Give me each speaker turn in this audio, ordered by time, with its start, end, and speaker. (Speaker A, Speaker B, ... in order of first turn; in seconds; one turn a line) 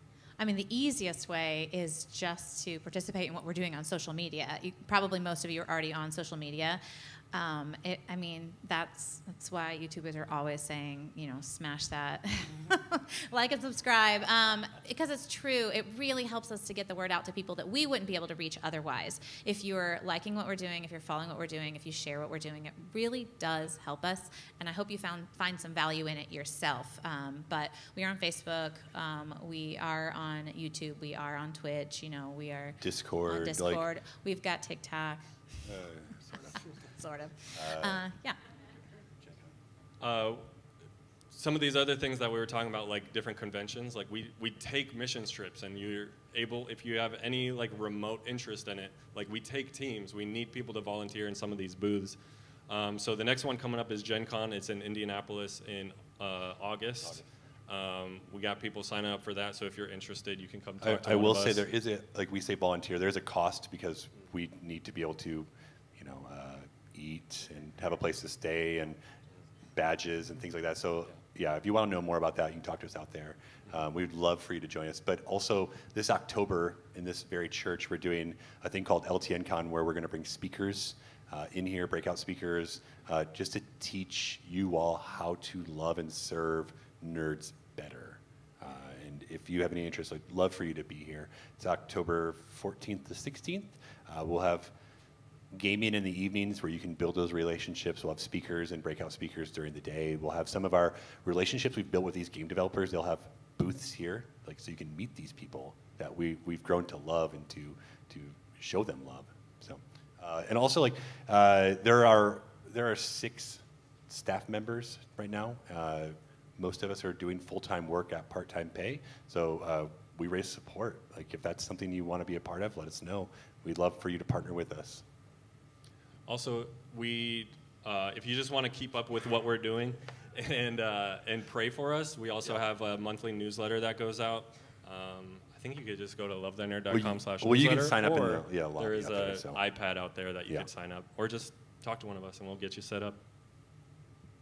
Speaker A: 0.4-6.8
Speaker A: 7.3-35.3
Speaker B: 32.8-33.9
Speaker B: 35.6-36.6
Speaker A: 36.9-38.4
Speaker B: 37.5-38.0
Speaker B: 39.2-39.5
Speaker C: 40.0-40.4
Speaker C: 41.3-52.2
Speaker C: 52.7-61.6
Speaker B: 60.8-69.0
Speaker B: 69.7-94.7
Speaker B: 95.5-125.0
Speaker C: 126.3-143.2
Speaker B: 136.9-139.6